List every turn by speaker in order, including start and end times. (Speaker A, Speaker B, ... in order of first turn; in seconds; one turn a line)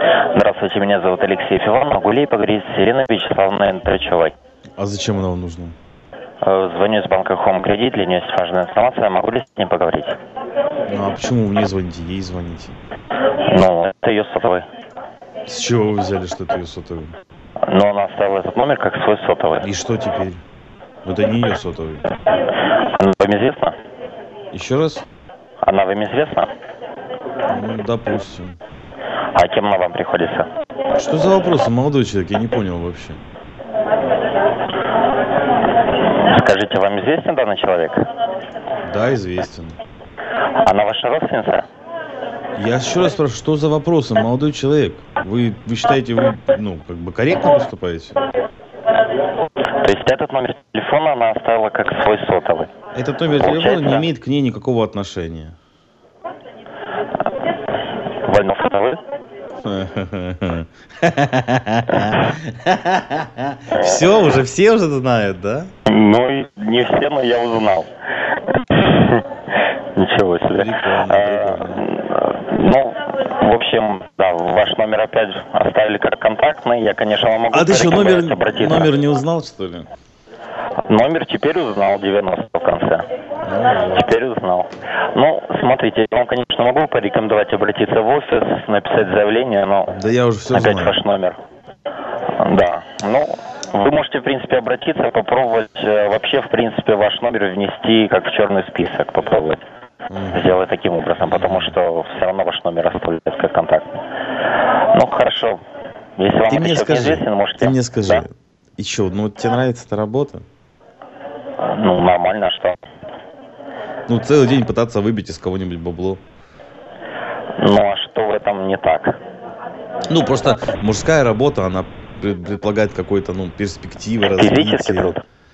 Speaker A: 0.3-4.3
Speaker B: 4.8-5.7
Speaker A: 6.4-10.2
Speaker B: 10.9-12.8
Speaker A: 13.4-14.7
Speaker B: 15.4-17.2
Speaker A: 17.7-19.7
Speaker B: 19.6-20.4
Speaker B: 21.0-22.0
Speaker A: 22.8-23.7
Speaker B: 24.5-25.1
Speaker A: 25.6-26.5
Speaker B: 27.5-28.6
Speaker A: 29.3-30.5
Speaker B: 30.9-33.2
Speaker A: 36.2-38.0
Speaker B: 38.8-39.8
Speaker A: 40.6-41.6
Speaker B: 42.5-48.2
Speaker A: 49.8-52.7
Speaker B: 52.9-55.5
Speaker A: 53.3-54.1
Speaker A: 58.2-59.0
Speaker B: 59.6-65.7
Speaker A: 61.9-62.3
Speaker A: 63.7-64.1
Speaker A: 65.8-78.9
Speaker B: 70.5-71.8
Speaker B: 77.5-79.9
Speaker A: 80.9-83.0
Speaker B: 83.4-84.1
Speaker A: 83.9-89.9
Speaker B: 89.9-91.0
Speaker A: 90.5-91.4
Speaker A: 92.4-99.6
Speaker B: 100.1-100.5
Speaker A: 100.3-103.9
Speaker B: 101.2-101.8
Speaker A: 104.9-105.6
Speaker A: 106.2-108.2
Speaker B: 106.5-110.4
Speaker A: 111.6-112.8
Speaker B: 114.1-116.2
Speaker A: 117.6-119.2
Speaker B: 120.1-125.2
Speaker A: 124.2-125.2